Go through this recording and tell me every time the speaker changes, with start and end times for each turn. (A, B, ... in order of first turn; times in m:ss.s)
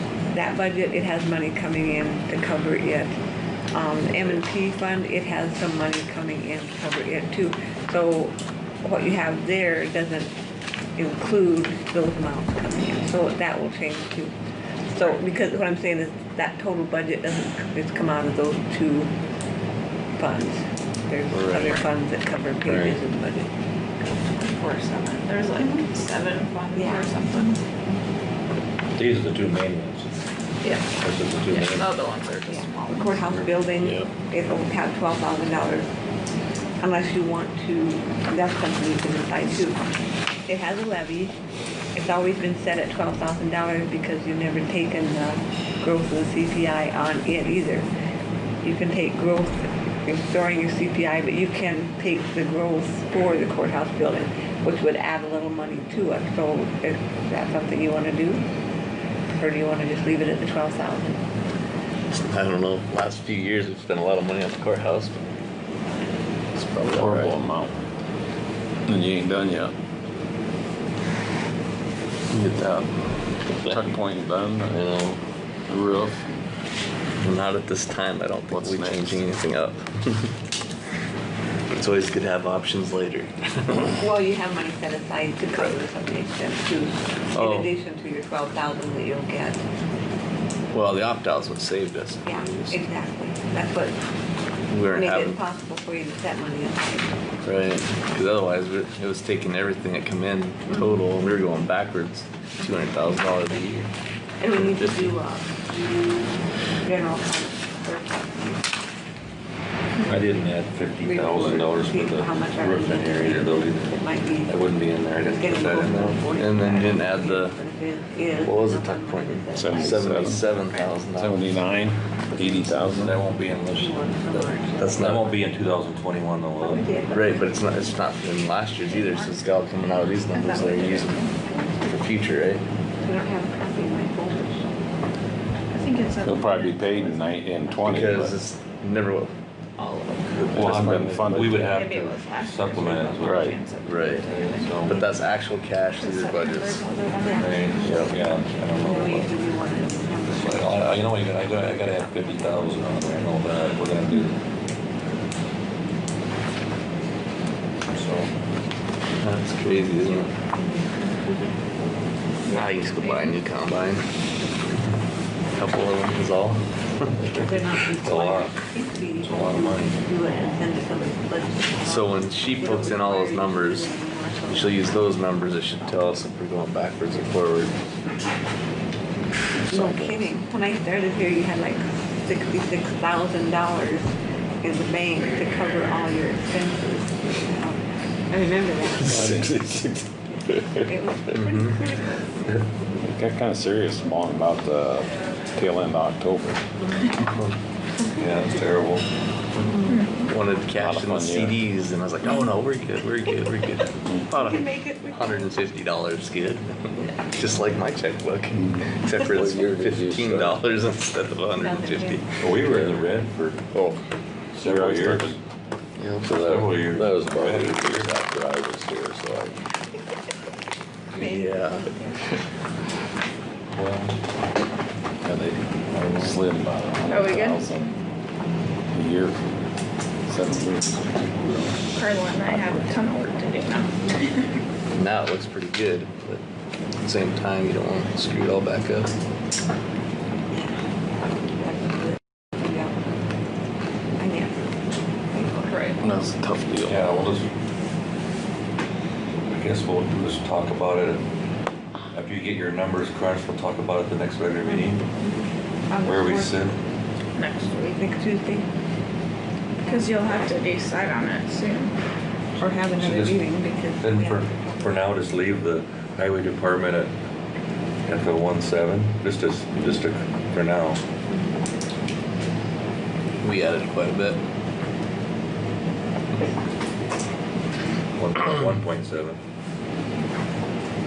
0:00.3-0:03.1 A
0:03.7-0:10.3 A
0:11.0-0:14.3 A
0:14.9-0:19.1 A
0:20.2-0:23.5 A
0:21.3-0:21.8 B
0:22.6-0:23.0 B
0:24.2-0:27.6 C
0:26.7-0:27.2 A
0:28.9-0:30.1 D
0:30.6-0:33.3 C
0:31.0-0:31.9 D
0:32.5-0:35.9 A
0:33.8-0:34.1 B
0:36.8-0:39.8 A
0:40.4-0:41.4 A
0:41.9-0:47.8 A
0:48.6-0:58.4 A
0:59.3-1:01.2 A
1:02.1-1:05.2 B
1:06.6-1:07.8 E
1:06.7-1:07.4 B
1:08.9-1:09.7 E
1:12.3-1:12.9 E
1:13.6-1:14.9 E
1:13.6-1:13.9 B
1:14.7-1:15.2 B
1:15.7-1:16.3 E
1:17.2-1:20.3 B
1:18.5-1:19.3 E
1:21.7-1:24.0 B
1:23.9-1:29.6 A
1:27.3-1:27.7 B
1:30.7-1:32.8 B
1:32.2-1:34.0 A
1:34.7-1:35.4 B
1:34.9-1:37.2 A
1:37.4-1:43.9 B
1:40.7-1:41.0 A
1:44.4-1:46.3 A
1:44.5-1:45.2 B
1:46.8-1:48.6 A
1:50.1-1:53.9 D
1:51.0-1:54.6 A
1:54.5-1:56.3 D
1:55.2-2:01.0 A
1:56.0-1:57.6 B
1:58.4-2:01.5 B
1:59.6-2:00.4 E
2:01.1-2:03.2 E
2:02.6-2:06.9 D
2:03.7-2:05.1 A
2:04.8-2:05.3 B
2:06.6-2:07.6 A
2:07.1-2:11.2 B
2:08.8-2:11.5 C
2:11.4-2:11.8 A
2:11.8-2:12.6 B
2:13.0-2:14.8 A
2:15.7-2:17.3 C
2:16.2-2:18.4 E
2:17.8-2:19.4 B
2:19.8-2:20.6 C
2:20.4-2:21.0 B
2:20.5-2:23.5 D
2:20.5-2:21.7 E
2:21.5-2:24.8 C
2:23.2-2:23.6 E
2:23.8-2:24.2 B
2:24.2-2:25.0 D
2:24.8-2:26.8 B
2:25.9-2:28.1 C
2:27.2-2:28.0 A
2:27.4-2:29.4 D
2:27.8-2:28.2 B
2:28.8-2:31.1 A
2:30.2-2:34.4 D
2:31.6-2:33.4 A
2:37.9-2:38.3 D
2:39.2-2:40.3 B
2:40.0-2:41.6 A
2:42.4-2:44.0 B
2:42.5-2:43.4 C
2:45.5-2:47.5 B
2:47.3-2:54.9 A
2:48.0-2:48.6 D
2:49.2-2:50.0 D
2:51.8-2:53.9 B
2:54.5-2:57.7 B
2:59.7-3:00.3 B
2:59.7-3:04.1 A
3:04.6-3:09.4 A
3:09.0-3:09.8 E
3:09.0-3:10.0 B
3:10.3-3:12.4 A
3:10.6-3:11.8 B
3:13.0-3:16.6 E
3:18.2-3:19.0 D
3:19.7-3:20.0 A
3:19.9-3:20.2 C
3:20.2-3:32.4 B
3:20.7-3:21.6 E
3:24.3-3:25.5 A
3:29.2-3:30.6 E
3:31.5-3:32.2 A
3:32.4-3:33.7 D
3:34.5-3:35.4 D
3:34.6-3:35.4 E
3:36.0-3:39.6 B
3:36.2-3:38.1 D
3:36.9-3:37.8 E
3:41.1-3:41.9 B
3:41.1-3:42.2 A
3:43.7-3:44.2 D
3:45.2-3:47.9 E
3:45.9-3:46.4 D
3:47.1-3:47.9 C
3:48.9-3:49.4 E
3:50.3-3:51.8 E
3:51.9-3:54.5 C
3:54.9-3:56.4 B
3:57.0-3:59.1 B
4:01.6-4:03.1 A
4:04.2-4:04.8 A
4:05.3-4:05.8 A
4:05.6-4:06.0 C
4:06.0-4:07.3 E
4:06.8-4:07.5 D
4:09.5-4:11.2 D
4:12.1-4:15.0 D
4:14.7-4:15.4 A
4:15.9-4:16.7 C
4:16.0-4:16.8 D
4:17.3-4:18.0 C
4:17.9-4:18.7 A
4:19.8-4:21.9 C
4:22.6-4:25.2 A
4:22.9-4:23.4 D
4:24.0-4:27.1 D
4:28.0-4:31.0 D
4:33.4-4:34.4 B
4:38.1-4:39.4 D